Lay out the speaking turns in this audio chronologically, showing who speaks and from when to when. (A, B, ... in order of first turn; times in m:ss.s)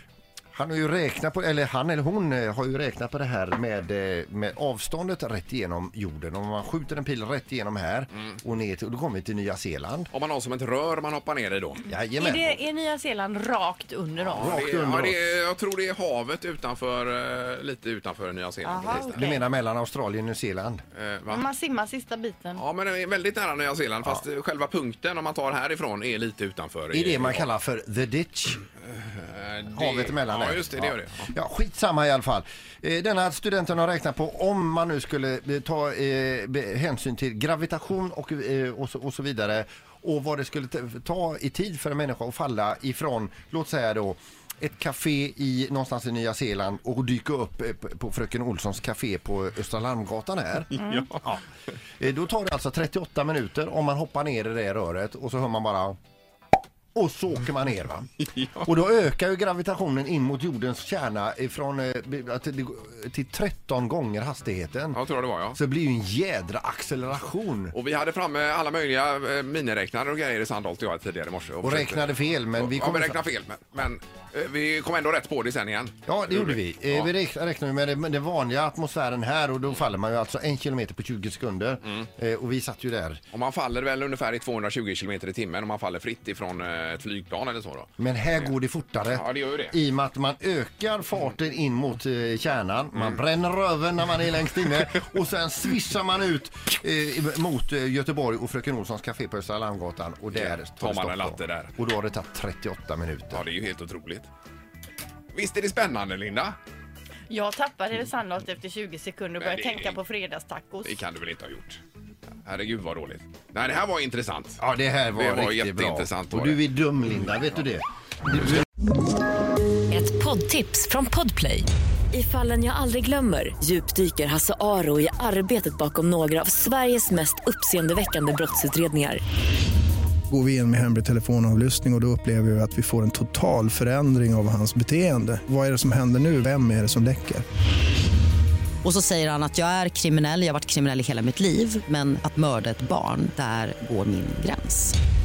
0:00.5-0:10.1 A
0:10.1-0:11.8 B
0:11.9-0:12.6 A
0:12.2-0:14.5 C
0:14.3-0:15.3 A
0:14.3-0:19.3 B
0:18.6-0:19.4 C
0:18.9-0:20.8 A
0:20.9-0:21.4 B
0:21.3-0:22.6 C
0:22.5-0:27.5 B
0:26.9-0:28.6 A
0:28.8-0:31.3 B
0:29.7-0:51.4 A
0:50.7-0:51.3 B
0:52.0-0:56.0 A
0:56.9-1:05.0 A
0:58.2-0:58.7 B
1:04.9-1:05.6 B
1:05.5-1:07.7 A
1:07.7-1:17.1 B
1:11.6-1:13.2 A
1:16.1-1:23.2 A
1:23.3-1:28.5 B
1:28.0-1:43.4 A
1:29.1-1:29.8 B
1:40.3-1:41.7 B
1:43.3-1:44.3 B
1:45.3-1:46.6 B
1:47.3-1:51.0 C
1:49.4-1:50.0 B
1:50.8-1:51.8 B
1:52.4-1:54.6 B
1:54.6-1:58.6 A
1:55.1-1:56.6 B
1:59.9-2:09.2 D
2:10.3-2:17.4 E
2:18.8-2:24.9 F